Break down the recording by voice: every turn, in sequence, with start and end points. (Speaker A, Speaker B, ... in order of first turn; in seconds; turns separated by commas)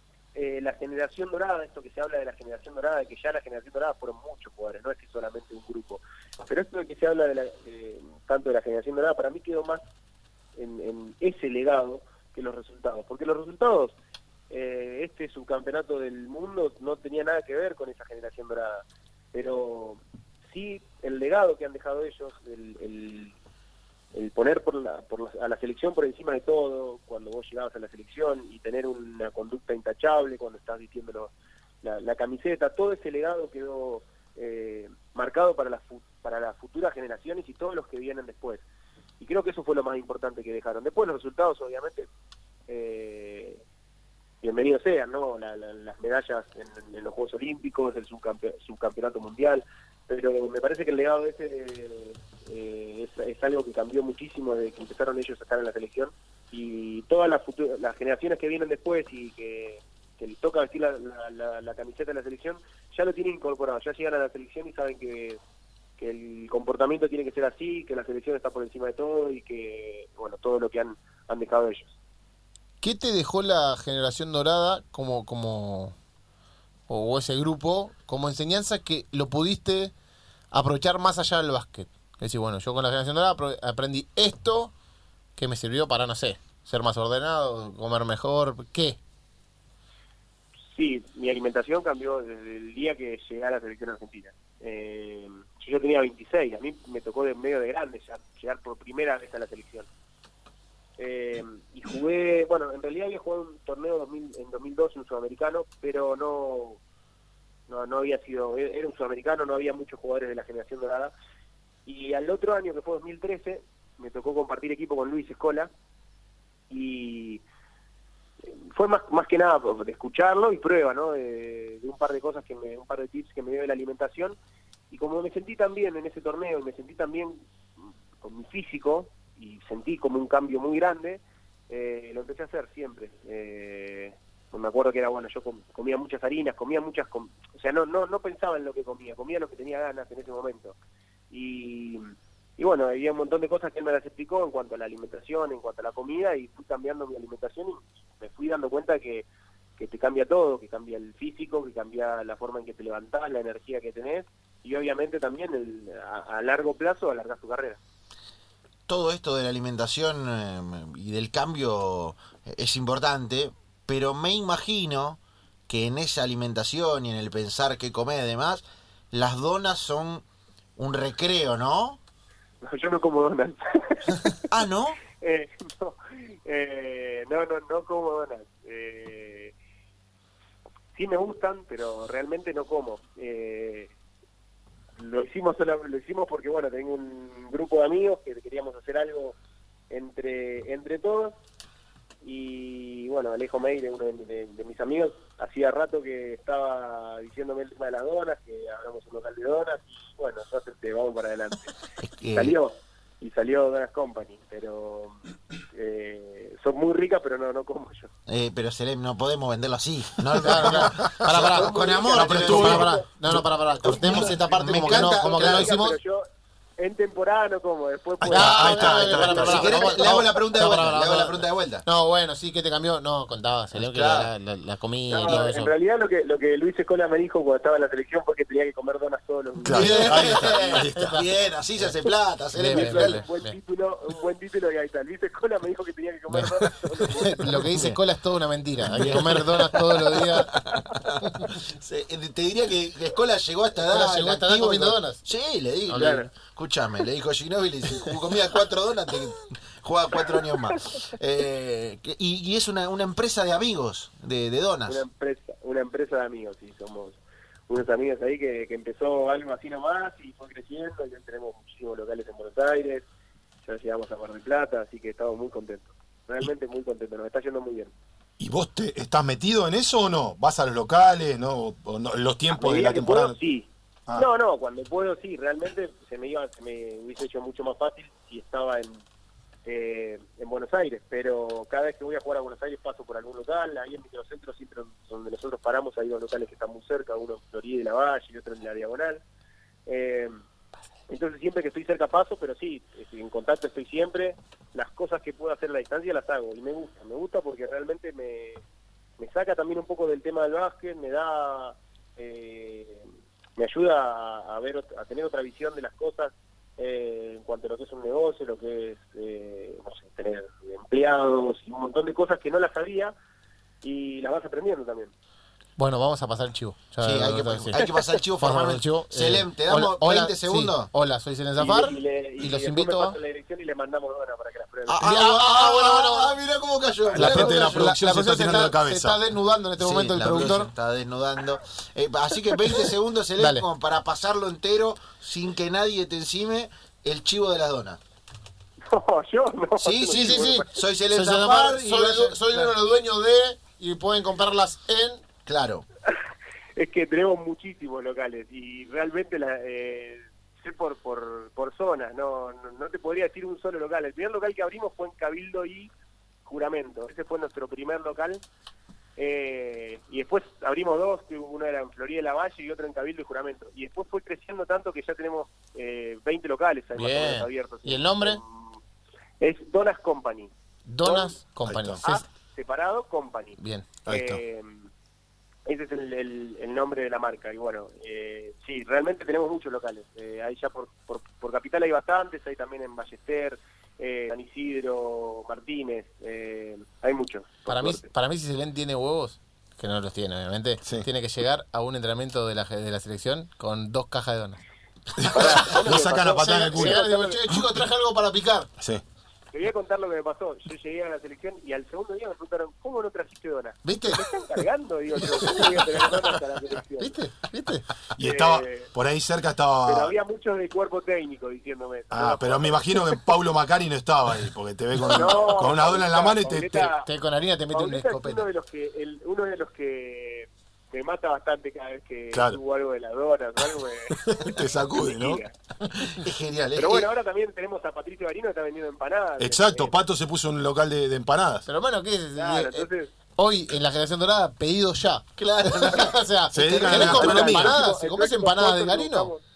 Speaker A: 0.3-9.8, Speaker A: 10.6-13.9, Speaker A: 14.5-23.4, Speaker A: 24.1-38.6, Speaker A: 39.2-42.1, Speaker A: 42.7-43.6, Speaker A: 44.4-65.4, Speaker A: 66.0-71.9, Speaker B: 72.8-75.9, Speaker B: 76.9-79.9, Speaker B: 80.5-84.7, Speaker B: 85.4-89.0, Speaker A: 90.7-99.9, Speaker A: 101.0-106.8, Speaker A: 107.7-111.1, Speaker A: 111.8-115.7, Speaker A: 116.7-117.4, Speaker A: 118.5-124.4, Speaker A: 124.9-140.8, Speaker A: 141.3-142.1, Speaker A: 142.6-149.2, Speaker A: 149.8-157.8, Speaker C: 158.9-170.2, Speaker C: 170.8-172.0, Speaker A: 172.6-174.4, Speaker C: 174.5-175.0, Speaker A: 175.2-179.5, Speaker A: 180.9-183.9, Speaker A: 185.0-189.3, Speaker A: 189.9-191.3, Speaker A: 192.2-201.7, Speaker C: 202.0-202.5, Speaker A: 202.3-205.2, Speaker A: 205.7-208.1, Speaker C: 208.3-212.9, Speaker B: 210.4-216.0, Speaker A: 211.5-213.1, Speaker D: 212.1-213.3, Speaker A: 213.7-216.2, Speaker C: 213.8-215.7, Speaker A: 216.8-220.2, Speaker D: 218.2-219.8, Speaker B: 218.3-225.7, Speaker C: 219.4-221.8, Speaker C: 223.7-224.3, Speaker A: 225.1-230.1, Speaker D: 229.6-231.1, Speaker C: 229.7-233.2, Speaker B: 229.7-231.3, Speaker B: 232.5-233.5, Speaker A: 232.7-237.5, Speaker B: 237.1-240.5, Speaker C: 238.9-239.5, Speaker C: 240.2-255.0, Speaker B: 243.8-245.2, Speaker A: 245.9-246.3, Speaker A: 254.9-263.1, Speaker A: 263.6-267.9, Speaker D: 268.4-273.4, Speaker A: 272.5-279.0, Speaker A: 279.6-289.2, Speaker A: 289.9-290.3, Speaker A: 291.1-298.6, Speaker A: 299.2-313.1, Speaker A: 313.8-315.1, Speaker B: 315.8-323.2, Speaker C: 317.0-320.9, Speaker A: 321.6-325.0, Speaker C: 324.9-328.0, Speaker B: 325.0-326.4, Speaker D: 327.1-329.2, Speaker B: 327.2-330.7, Speaker C: 329.8-338.0, Speaker B: 333.4-333.6, Speaker A: 338.9-340.7, Speaker C: 339.8-342.7, Speaker B: 340.1-345.2, Speaker C: 345.4-345.8, Speaker A: 346.8-355.9, Speaker A: 356.4-358.4, Speaker A: 359.2-368.8, Speaker B: 366.9-368.4, Speaker A: 369.4-370.5, Speaker B: 370.9-372.2, Speaker A: 371.0-371.4, Speaker D: 371.6-372.1, Speaker A: 372.0-374.9, Speaker B: 373.6-373.9, Speaker D: 374.1-374.4, Speaker A: 375.6-388.1, Speaker B: 387.7-394.6, Speaker D: 395.2-397.6, Speaker A: 395.3-397.4, Speaker B: 395.3-398.7, Speaker A: 399.5-407.1, Speaker B: 403.8-404.2, Speaker B: 405.4-405.6, Speaker B: 407.0-407.9, Speaker D: 408.1-410.1, Speaker A: 408.2-408.9, Speaker A: 409.9-412.7, Speaker D: 412.1-416.9, Speaker A: 415.1-417.1, Speaker B: 417.0-418.5, Speaker A: 417.7-425.5, Speaker D: 422.3-422.6, Speaker D: 424.2-425.4, Speaker C: 425.9-427.1, Speaker A: 426.8-429.9, Speaker D: 429.4-431.6, Speaker B: 431.6-432.9, Speaker A: 432.4-433.1, Speaker B: 433.4-439.3, Speaker C: 435.4-436.2, Speaker D: 436.5-437.8, Speaker C: 436.7-437.7, Speaker A: 436.9-439.4